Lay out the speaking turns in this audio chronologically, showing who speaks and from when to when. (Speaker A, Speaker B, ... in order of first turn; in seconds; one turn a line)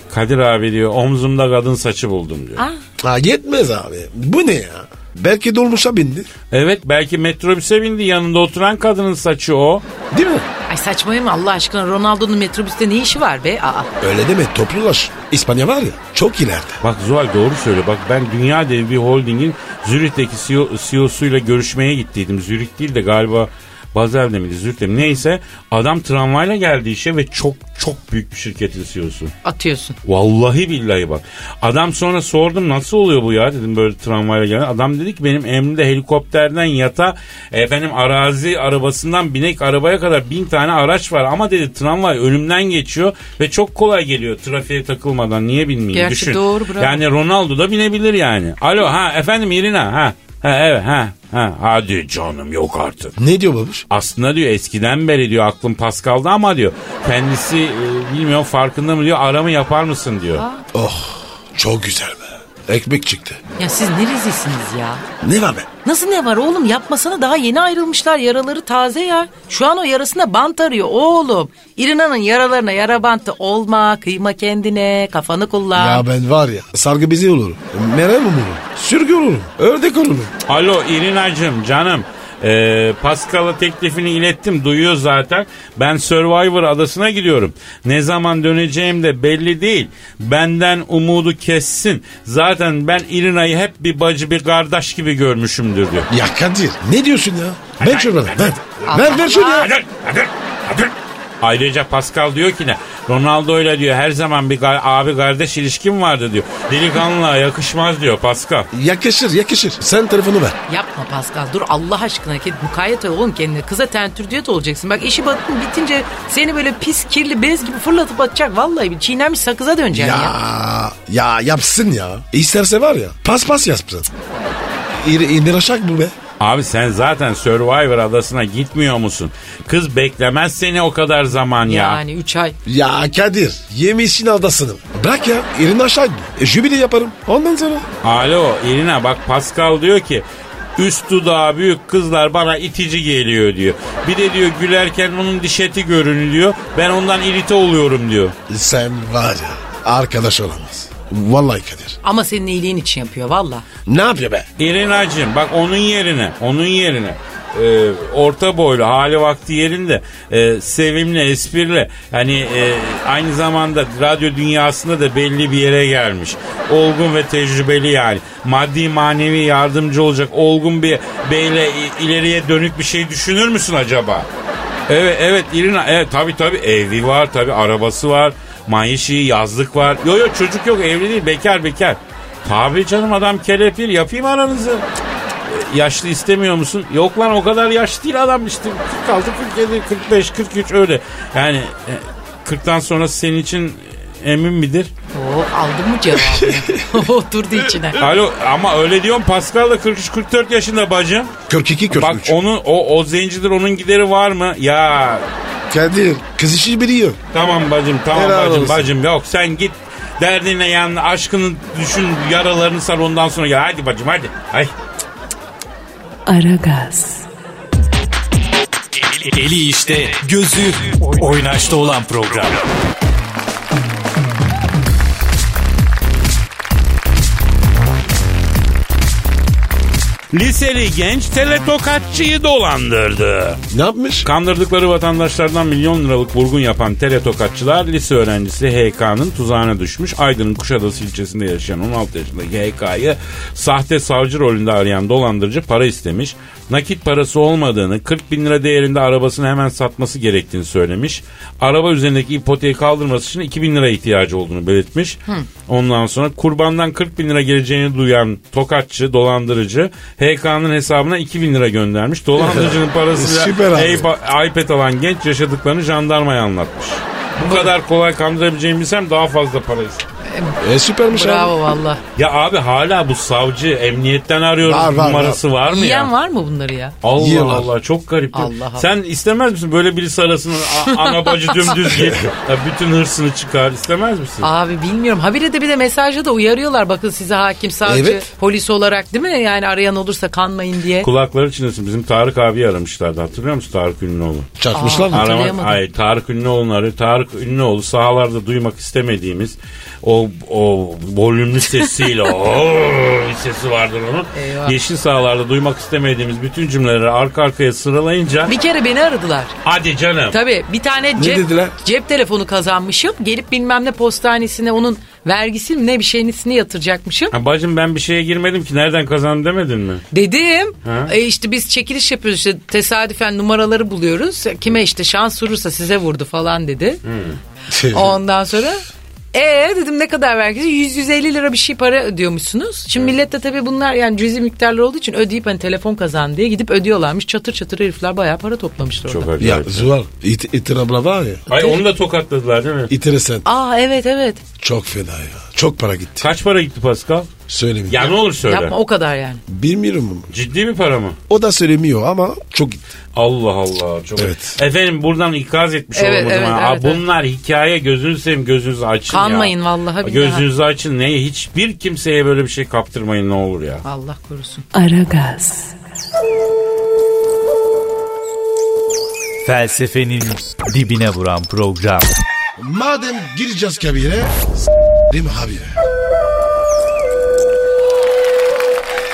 Speaker A: 0.1-2.6
Speaker B: 3.0-6.3
Speaker A: 6.5-9.8
Speaker B: 10.1-10.5
Speaker C: 10.7-13.9
Speaker B: 14.0-16.8
Speaker A: 16.8-29.3
Speaker C: 29.4-30.0
Speaker A: 30.0-53.2
Speaker C: 45.9-47.0
Speaker B: 53.2-53.8
Speaker A: 53.9-60.4
Speaker C: 60.4-60.6
Speaker B: 60.7-63.4
Speaker C: 63.6-65.0
Speaker B: 65.2-65.7
Speaker C: 65.8-76.0
Speaker B: 75.8-80.3
Speaker A: 80.5-96.1
Speaker B: 96.1-99.7
Speaker A: 97.8-108.7
Speaker C: 98.9-99.7
Speaker B: 108.7-110.6
Speaker C: 110.7-120.3
Speaker B: 119.9-124.1
Speaker B: 124.9-126.2
Speaker A: 126.4-132.0
Speaker C: 131.7-132.6
Speaker B: 132.7-137.9
Speaker A: 138.0-140.2
Speaker A: 140.8-148.3
Speaker B: 148.5-152.0
Speaker C: 152.0-153.7
Speaker B: 153.9-154.5
Speaker A: 154.6-174.3
Speaker A: 174.9-184.8
Speaker A: 185.5-194.9
Speaker C: 195.1-198.0
Speaker A: 198.0-201.3
Speaker B: 201.5-202.3
Speaker A: 201.9-205.3
Speaker B: 205.7-207.2
Speaker A: 207.3-214.7
Speaker B: 208.1-208.9
Speaker D: 216.3-217.3
Speaker E: 219.1-222.7
Speaker A: 230.3-233.6
Speaker B: 233.7-234.3
Speaker A: 234.2-270.0
Speaker B: 262.4-264.1
Speaker C: 270.2-272.0
Speaker B: 270.6-271.7
Speaker A: 272.2-276.1
Speaker B: 274.6-275.4
Speaker C: 275.7-276.9
Speaker A: 277.0-284.5
Speaker B: 277.2-277.7
Speaker C: 278.3-278.9
Speaker C: 280.8-281.9
Speaker C: 284.4-291.1
Speaker B: 287.9-288.3
Speaker A: 291.0-294.5
Speaker B: 294.6-295.3
Speaker C: 294.7-295.8
Speaker A: 295.1-308.5
Speaker C: 304.3-304.8
Speaker C: 308.5-309.6
Speaker A: 309.6-310.4
Speaker C: 310.3-317.4
Speaker B: 311.2-311.8
Speaker A: 317.3-320.1
Speaker C: 320.1-327.0
Speaker A: 320.9-321.1
Speaker A: 327.1-327.4
Speaker B: 327.7-328.2
Speaker C: 327.9-328.8
Speaker C: 329.3-339.4
Speaker A: 339.1-339.9
Speaker B: 339.4-341.8
Speaker A: 341.5-342.9
Speaker B: 342.9-343.4
Speaker C: 343.4-344.4
Speaker B: 344.6-346.3
Speaker A: 346.2-347.3
Speaker B: 347.5-348.1
Speaker A: 347.9-348.8
Speaker C: 348.3-349.4
Speaker B: 349.5-350.3
Speaker A: 350.3-351.2
Speaker B: 351.3-352.8
Speaker A: 353.1-363.8
Speaker B: 354.2-354.6
Speaker C: 355.9-357.0
Speaker C: 359.1-360.5
Speaker C: 363.8-364.7
Speaker D: 364.7-365.8
Speaker E: 369.4-372.1
Speaker B: 372.6-374.3
Speaker B: 375.1-375.7